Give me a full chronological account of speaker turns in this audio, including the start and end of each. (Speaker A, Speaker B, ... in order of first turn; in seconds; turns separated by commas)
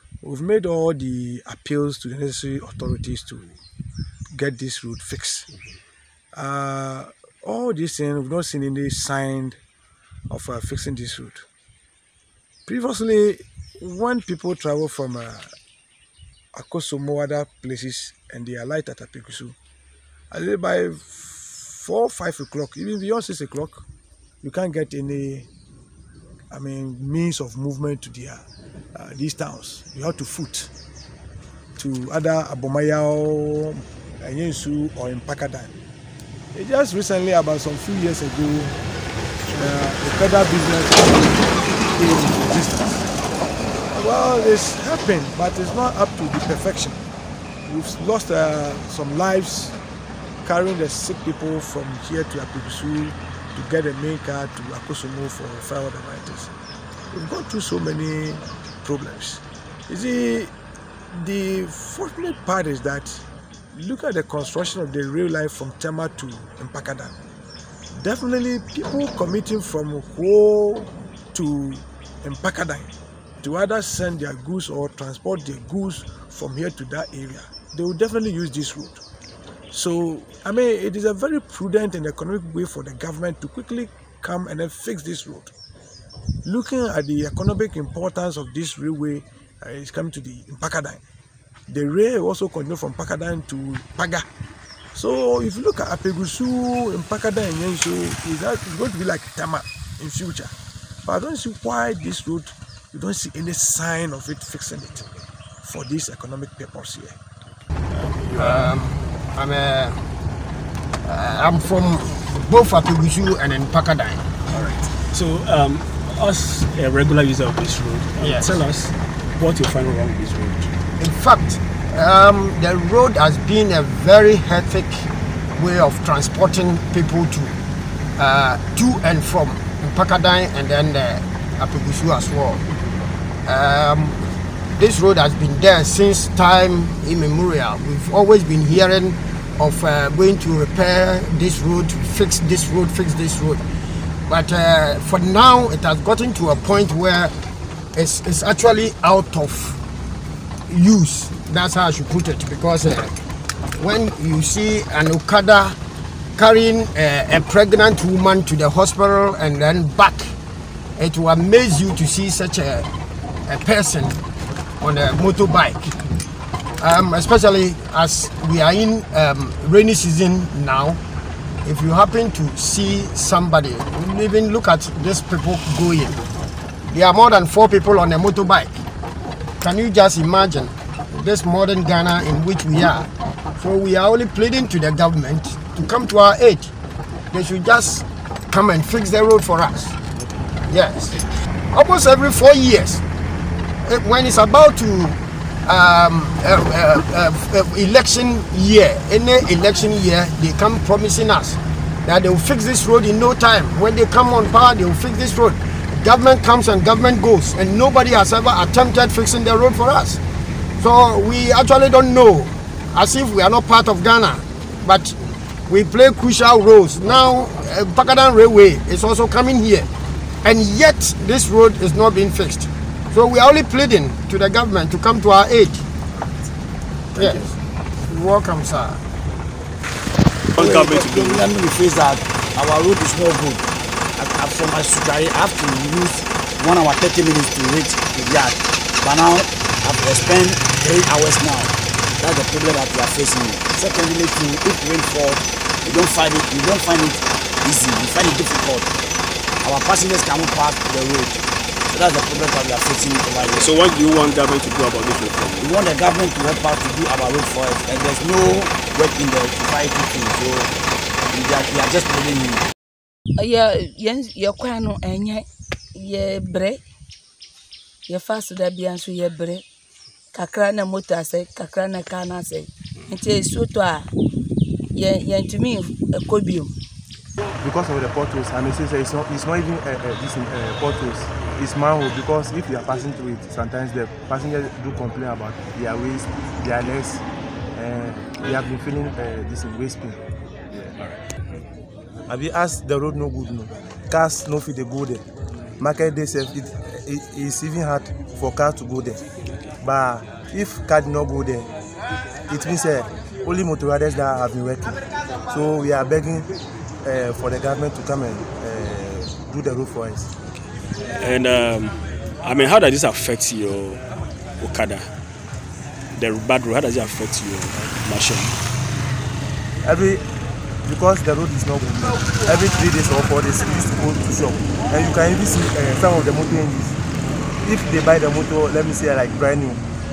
Speaker A: 0.2-3.6, Speaker A: 4.3-5.5, Speaker A: 6.3-9.6, Speaker A: 10.3-11.5, Speaker A: 12.7-15.6, Speaker A: 16.6-19.6, Speaker A: 20.3-23.9, Speaker A: 24.4-25.5, Speaker A: 26.5-30.7, Speaker A: 31.8-35.8, Speaker A: 36.5-38.8, Speaker A: 39.5-43.1, Speaker A: 43.9-47.0, Speaker A: 47.7-49.8, Speaker A: 50.4-56.5, Speaker A: 57.1-60.5, Speaker A: 61.1-67.2, Speaker A: 67.9-79.0, Speaker A: 79.7-85.5, Speaker A: 86.5-91.0, Speaker A: 91.7-94.3, Speaker A: 94.9-105.1, Speaker A: 105.6-107.2, Speaker B: 107.9-108.8, Speaker C: 108.3-110.0, Speaker C: 111.0-114.3, Speaker B: 114.5-120.7, Speaker C: 118.2-118.6, Speaker C: 121.0-127.6, Speaker C: 128.2-132.7, Speaker C: 133.4-134.2, Speaker C: 134.7-143.6, Speaker C: 144.3-147.3, Speaker C: 147.9-149.8, Speaker C: 150.7-153.2, Speaker C: 153.8-155.8, Speaker C: 156.4-160.3, Speaker C: 161.0-162.9, Speaker C: 163.5-164.2, Speaker C: 164.8-165.9, Speaker C: 166.8-171.0, Speaker C: 171.6-176.2, Speaker C: 176.9-178.8, Speaker C: 179.6-186.7, Speaker C: 187.3-190.0, Speaker C: 190.7-193.0, Speaker C: 193.8-210.2, Speaker C: 210.8-219.9, Speaker C: 220.4-225.8, Speaker C: 227.2-229.0, Speaker B: 230.6-231.4, Speaker D: 230.6-233.6, Speaker D: 234.2-248.9, Speaker D: 249.6-253.8, Speaker B: 253.4-255.7, Speaker D: 255.6-260.7, Speaker D: 261.3-262.6, Speaker E: 263.4-266.8, Speaker E: 268.1-269.6, Speaker E: 270.3-274.1, Speaker E: 274.9-276.7, Speaker F: 277.6-287.2, Speaker F: 287.8-290.2, Speaker F: 292.3-295.2, Speaker F: 295.8-299.2, Speaker F: 299.8-301.7, Speaker F: 302.5-306.5, Speaker F: 307.0-310.3, Speaker B: 311.1-314.0, Speaker B: 314.6-315.1, Speaker B: 316.1-318.6, Speaker F: 319.8-320.2, Speaker F: 320.8-327.0, Speaker F: 327.6-329.8